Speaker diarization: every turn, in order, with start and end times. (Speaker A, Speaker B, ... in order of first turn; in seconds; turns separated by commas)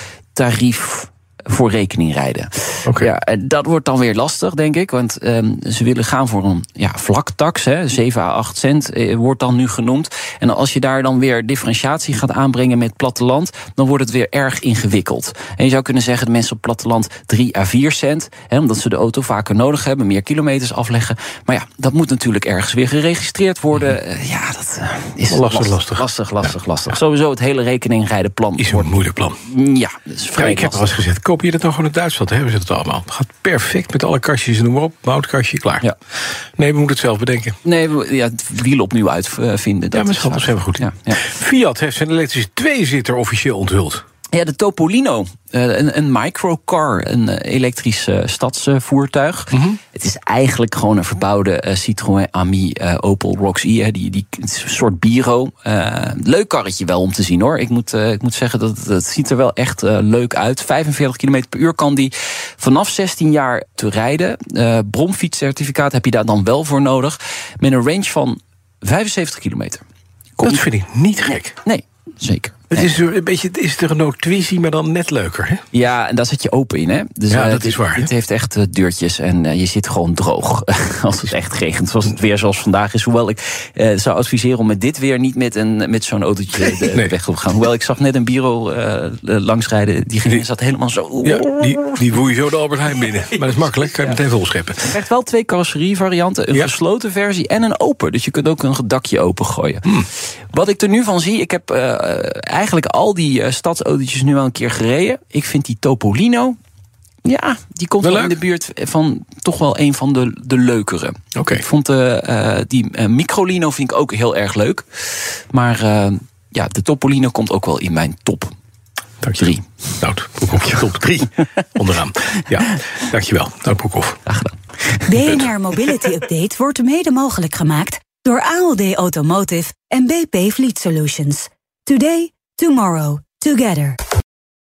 Speaker A: 0.3-31.0, Speaker B: 25.3-26.5, Speaker B: 28.6-29.4, Speaker B: 30.4-35.8, Speaker B: 36.6-37.5, Speaker A: 37.6-41.2, Speaker B: 39.9-44.0, Speaker A: 44.3-69.8, Speaker B: 49.5-49.8, Speaker A: 70.4-70.7, Speaker B: 70.4-71.6, Speaker A: 71.6-72.9, Speaker B: 72.7-75.6, Speaker A: 75.7-91.5, Speaker B: 77.3-78.1, Speaker B: 91.2-94.9, Speaker A: 94.8-99.9, Speaker A: 100.5-106.5, Speaker A: 107.2-118.5, Speaker B: 108.0-108.3, Speaker B: 111.3-111.6, Speaker B: 119.2-124.2, Speaker A: 119.4-119.6, Speaker A: 124.2-125.2, Speaker C: 125.1-134.0